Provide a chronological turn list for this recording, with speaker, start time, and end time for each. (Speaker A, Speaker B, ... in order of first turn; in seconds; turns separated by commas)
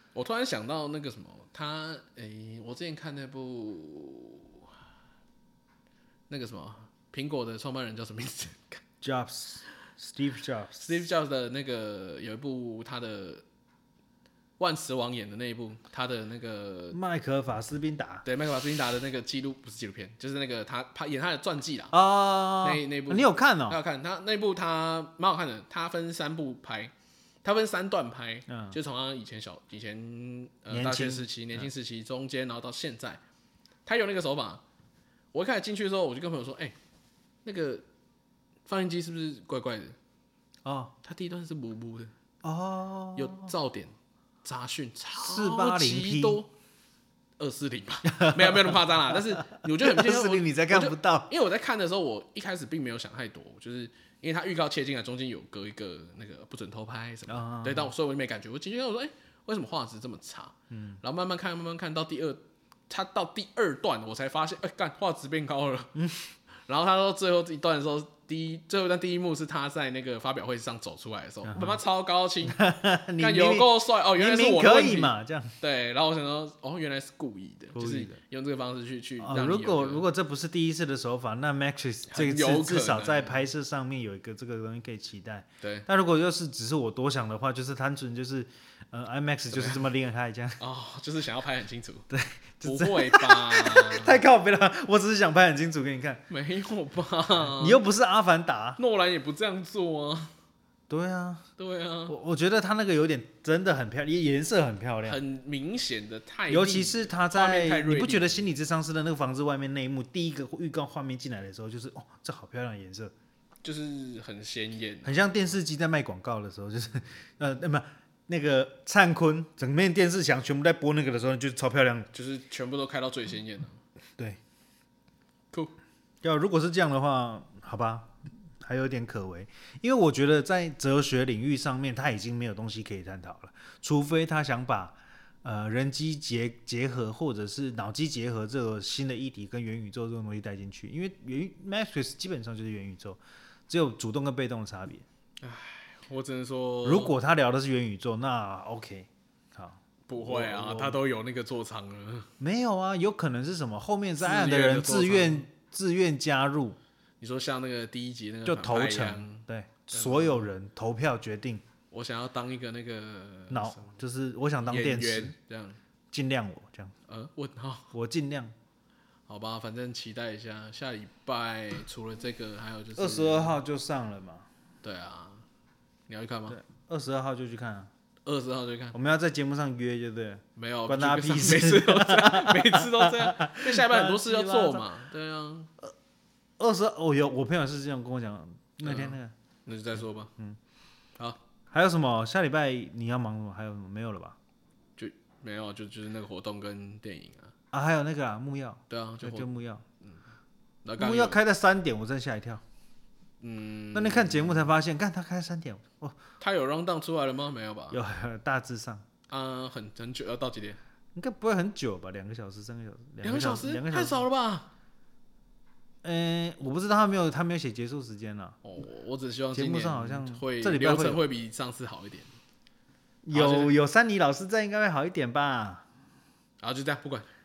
Speaker A: 0.1-4.6, Speaker A: 6.3-8.8, Speaker B: 9.0-10.9, Speaker A: 10.8-13.4, Speaker A: 14.6-17.0, Speaker B: 16.9-18.2, Speaker A: 18.2-22.0, Speaker B: 21.9-23.8, Speaker A: 22.6-26.9, Speaker A: 27.4-33.2, Speaker B: 28.5-28.8, Speaker B: 30.7-31.7, Speaker A: 33.8-34.6, Speaker A: 35.3-36.7, Speaker A: 37.4-37.8, Speaker A: 38.6-40.0, Speaker B: 40.6-40.9, Speaker A: 41.0-42.1, Speaker B: 42.4-43.5, Speaker A: 43.1-46.5, Speaker B: 45.2-46.4, Speaker A: 47.4-65.9, Speaker B: 48.1-51.3, Speaker B: 57.3-57.9, Speaker B: 60.7-61.0, Speaker B: 65.9-66.2, Speaker A: 66.7-72.6, Speaker B: 71.5-71.8, Speaker B: 72.4-75.5, Speaker A: 73.2-80.0, Speaker B: 77.7-78.2, Speaker B: 79.2-90.6, Speaker A: 82.1-83.4, Speaker A: 85.6-85.9, Speaker A: 89.5-89.8, Speaker A: 90.6-92.1, Speaker B: 92.1-96.2, Speaker A: 92.6-94.2, Speaker A: 96.3-97.8, Speaker B: 97.5-98.8, Speaker A: 98.8-100.3, Speaker B: 100.9-101.4, Speaker A: 101.6-102.2, Speaker B: 102.1-105.2, Speaker A: 105.0-108.4, Speaker B: 106.5-113.1, Speaker A: 113.6-115.3, Speaker B: 115.0-122.1, Speaker A: 122.1-123.8, Speaker B: 126.2-145.0, Speaker A: 145.4-147.2, Speaker B: 146.8-151.0, Speaker A: 150.1-152.3, Speaker B: 152.4-156.8, Speaker A: 154.2-155.4, Speaker A: 157.2-160.5, Speaker B: 158.4-161.6, Speaker A: 161.9-164.0, Speaker B: 163.5-165.3, Speaker A: 164.7-165.8, Speaker B: 166.1-166.9, Speaker A: 167.1-167.9, Speaker B: 167.9-168.5, Speaker A: 169.3-173.6, Speaker B: 172.9-174.5, Speaker A: 174.8-175.4, Speaker A: 176.1-176.6, Speaker B: 176.5-177.9, Speaker A: 178.2-179.0, Speaker B: 178.9-184.9, Speaker A: 180.6-185.7, Speaker B: 186.6-189.3, Speaker A: 188.8-190.3, Speaker B: 191.7-194.4, Speaker A: 195.0-197.5, Speaker B: 197.7-199.8, Speaker A: 198.9-199.5, Speaker A: 200.8-201.4, Speaker B: 201.0-202.6, Speaker A: 203.4-204.7, Speaker B: 203.9-206.2, Speaker A: 206.4-208.0, Speaker B: 207.9-209.0, Speaker A: 209.3-210.8, Speaker B: 211.1-214.2, Speaker A: 213.2-214.7, Speaker B: 216.0-218.6, Speaker A: 218.6-222.3, Speaker B: 219.5-221.2, Speaker B: 223.2-225.8, Speaker A: 223.3-223.7, Speaker A: 226.6-227.3